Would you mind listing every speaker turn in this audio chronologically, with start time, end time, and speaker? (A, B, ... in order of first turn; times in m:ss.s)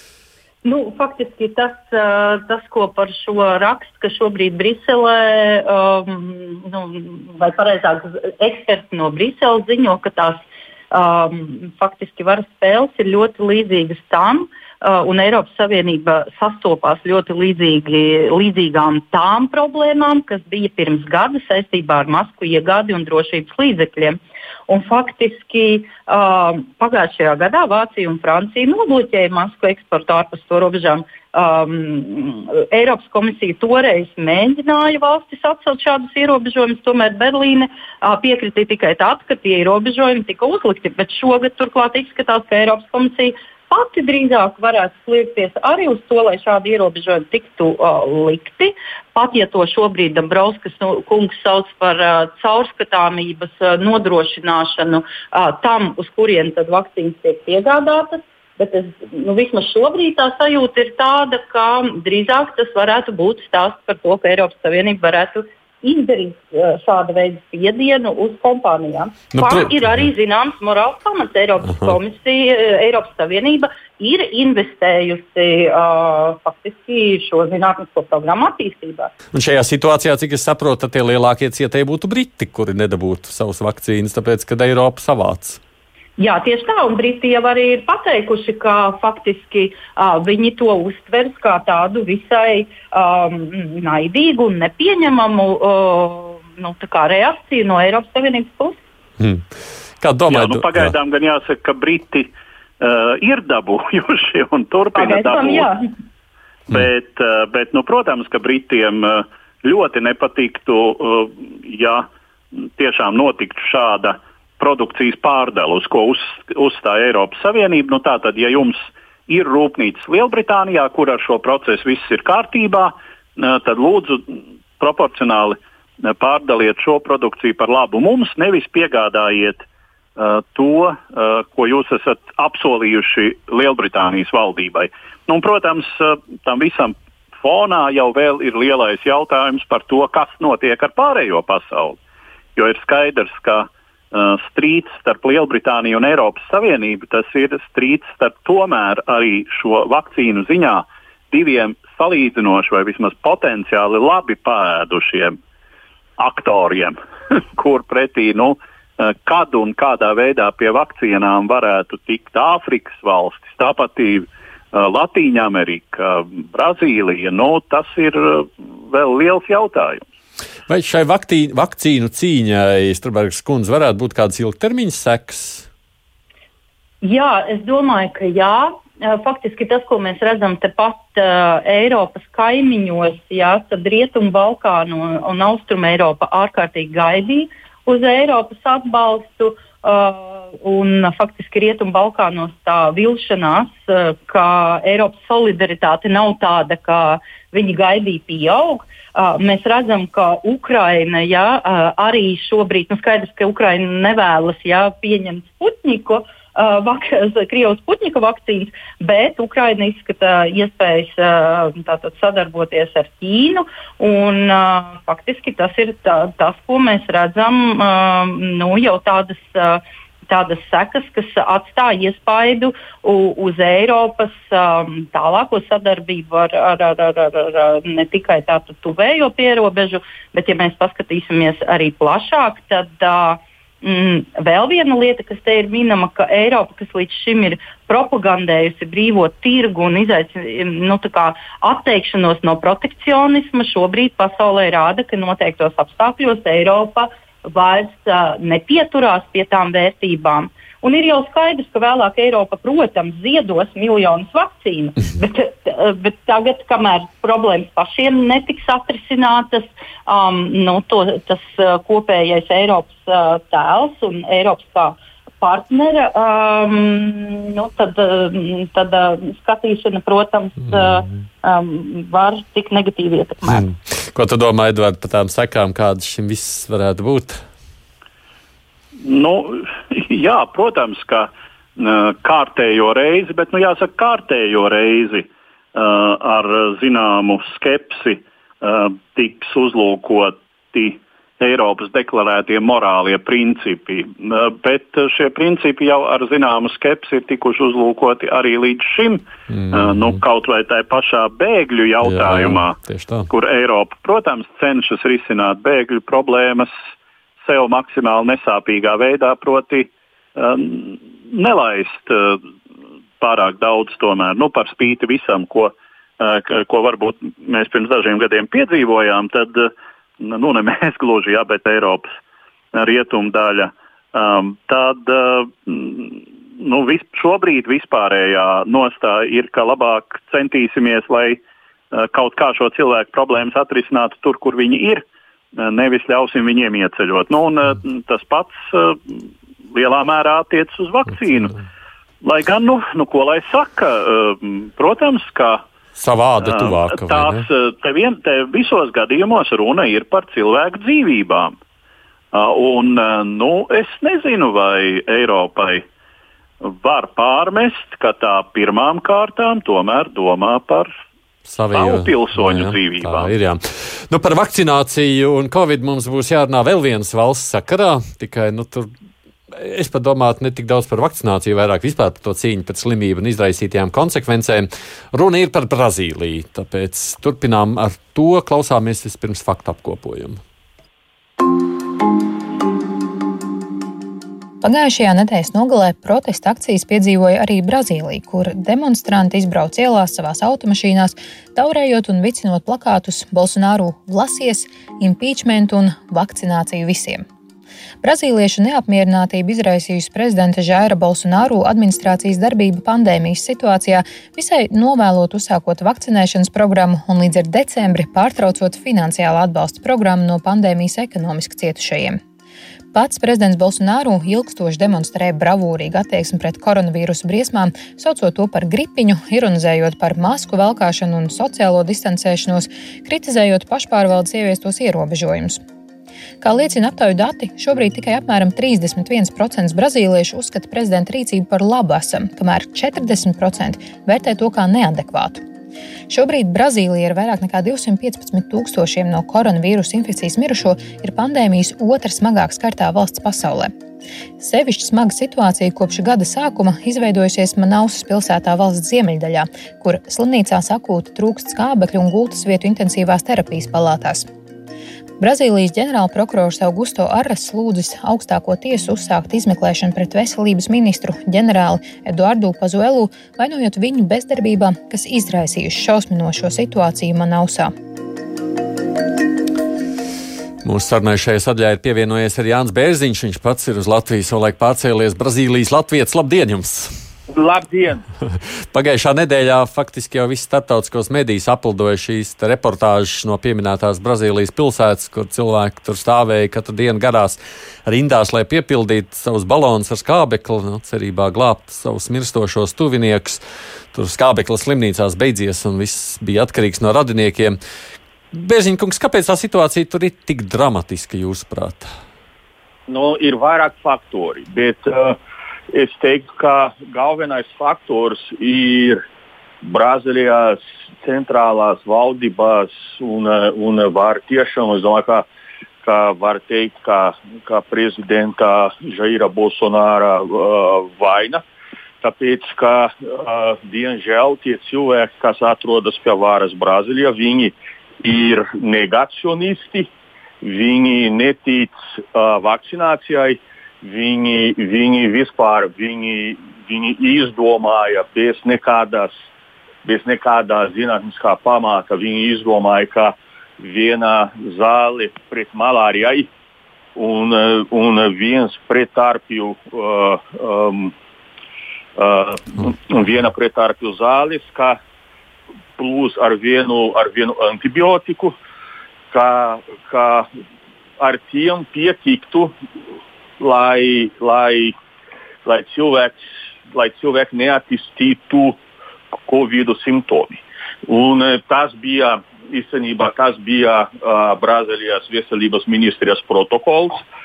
0:00.6-1:19.1 A
1:09.3-1:09.7 B
1:19.3-1:25.6 B
1:26.2-1:38.8 A
1:39.2-1:39.4 B
1:40.0-1:40.9 B
1:40.3-1:45.7 C
1:44.9-1:45.8 A
1:46.7-1:52.0 C
1:52.6-2:09.6 C
2:10.2-2:22.0 C
2:22.6-2:35.4 C
2:36.2-2:50.0 C
2:50.7-2:55.7 B
2:57.0-4:33.6 A
4:30.7-4:31.1 B
4:33.4-4:37.4 B
4:39.0-5:02.8 C
4:59.5-5:00.2 B
5:02.0-5:03.3 B
5:03.3-5:06.7 C
5:07.4-5:12.4 C
5:13.2-5:22.2 C
5:22.7-5:31.4 C
5:31.9-5:35.0 C
5:35.6-5:41.5 C
5:42.2-5:45.6 C
5:46.0-5:47.5 B
5:46.4-5:51.6 C
5:52.3-5:55.8 C
5:56.6-6:00.9 C
6:01.4-6:08.9 B
6:01.7-6:03.3 C
6:09.5-6:20.4 B
6:24.6-6:37.2 D
6:38.0-6:52.2 D
6:52.9-7:05.6 D
7:06.4-7:15.4 D
7:16.1-7:23.7 D
7:24.4-7:34.3 D
7:35.2-7:47.7 D
7:50.6-7:57.0 B
7:57.3-7:58.0 E
7:58.4-8:13.4 B
8:13.9-8:17.6 B
8:18.3-8:21.9 B
8:22.9-8:25.2 E
8:25.7-8:29.0 E
8:29.6-8:35.2 E
8:35.8-8:41.4 E
8:42.0-8:49.9 E
8:50.4-8:59.1 E
8:59.8-9:06.3 E
9:07.0-9:10.9 E
9:12.0-9:14.8 E
9:15.8-9:18.3 E
9:19.1-9:20.3 E
9:21.0-9:22.5 E
9:23.4-9:24.7 E
9:25.4-9:28.6 E
9:29.3-9:37.0 E